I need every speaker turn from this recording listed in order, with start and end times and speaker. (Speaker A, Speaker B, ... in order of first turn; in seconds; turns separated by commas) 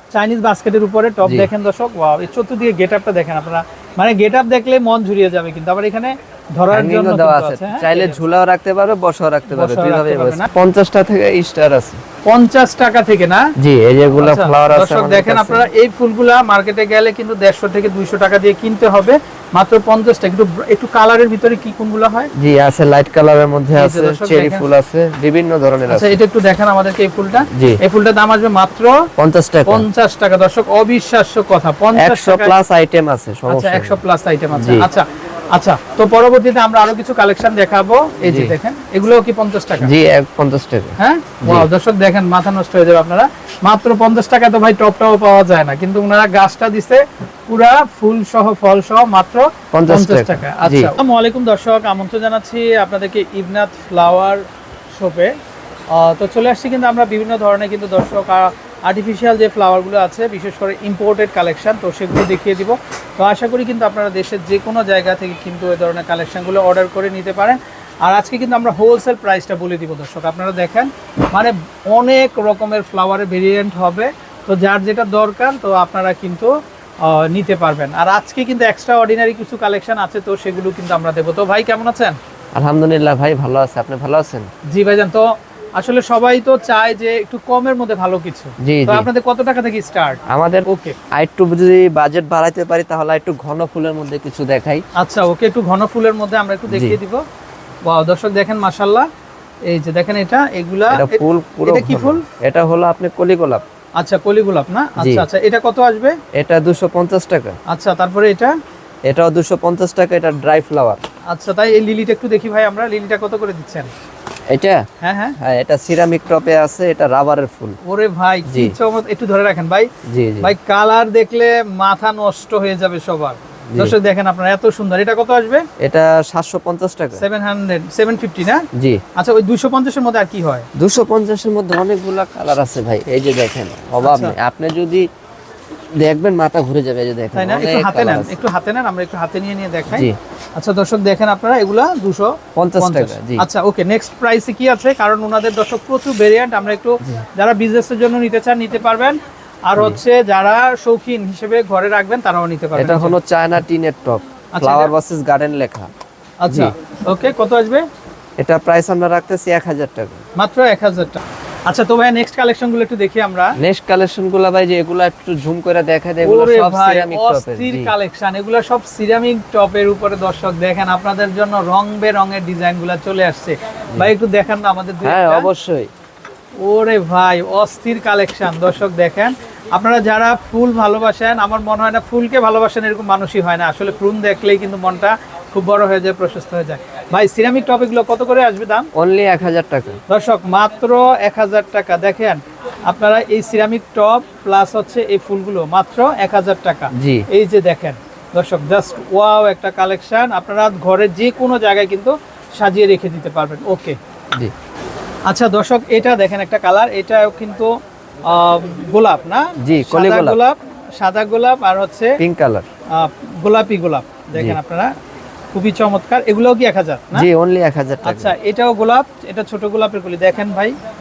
Speaker A: 0.1-8.2, Speaker B: 1.2-1.5, Speaker B: 6.7-12.0, Speaker A: 9.5-10.5, Speaker A: 12.2-13.5, Speaker B: 13.6-15.7, Speaker A: 14.2-22.3, Speaker B: 22.3-26.2, Speaker A: 23.7-24.6, Speaker A: 25.9-28.9, Speaker B: 27.5-27.8, Speaker B: 29.2-29.9, Speaker A: 29.6-32.5, Speaker B: 31.9-34.0, Speaker A: 33.5-39.9, Speaker B: 34.5-34.9, Speaker B: 38.2-38.5, Speaker B: 39.8-41.7, Speaker A: 41.0-54.4, Speaker B: 49.7-50.9, Speaker A: 54.9-55.3, Speaker A: 55.9-76.5, Speaker A: 77.0-82.2, Speaker B: 82.5-84.5, Speaker A: 84.7-91.0, Speaker B: 88.6-89.1, Speaker B: 90.3-94.8, Speaker A: 95.0-97.2, Speaker B: 96.7-97.0, Speaker A: 97.8-99.1, Speaker A: 99.7-102.2, Speaker B: 100.9-103.6, Speaker A: 104.0-106.2, Speaker B: 105.0-105.2, Speaker B: 106.3-107.6, Speaker A: 107.7-108.5, Speaker B: 109.1-111.0, Speaker A: 111.3-113.9, Speaker B: 114.5-114.8, Speaker A: 115.0-115.4, Speaker B: 115.4-117.8, Speaker A: 117.8-119.9, Speaker B: 118.5-118.7, Speaker B: 120.0-120.5, Speaker A: 120.4-125.6, Speaker B: 125.8-127.2, Speaker A: 127.2-128.6, Speaker B: 128.7-129.0, Speaker A: 129.2-130.7, Speaker B: 130.8-135.1, Speaker A: 134.0-134.3, Speaker B: 136.0-138.4, Speaker A: 137.3-153.2, Speaker B: 142.6-143.4, Speaker B: 152.8-155.9, Speaker A: 154.6-154.9, Speaker A: 156.4-157.8, Speaker B: 156.5-156.7, Speaker B: 158.4-160.2, Speaker A: 160.4-163.5, Speaker B: 163.6-167.9, Speaker A: 166.2-175.5, Speaker B: 175.0-175.9, Speaker A: 176.6-188.9, Speaker B: 188.9-190.0, Speaker A: 190.1-204.0, Speaker B: 196.9-197.2, Speaker A: 205.3-207.7, Speaker A: 208.2-212.2, Speaker B: 209.6-210.4, Speaker B: 212.2-212.7, Speaker A: 212.9-214.9, Speaker B: 214.3-214.6, Speaker A: 215.5-217.3, Speaker B: 217.1-218.3, Speaker A: 218.0-220.7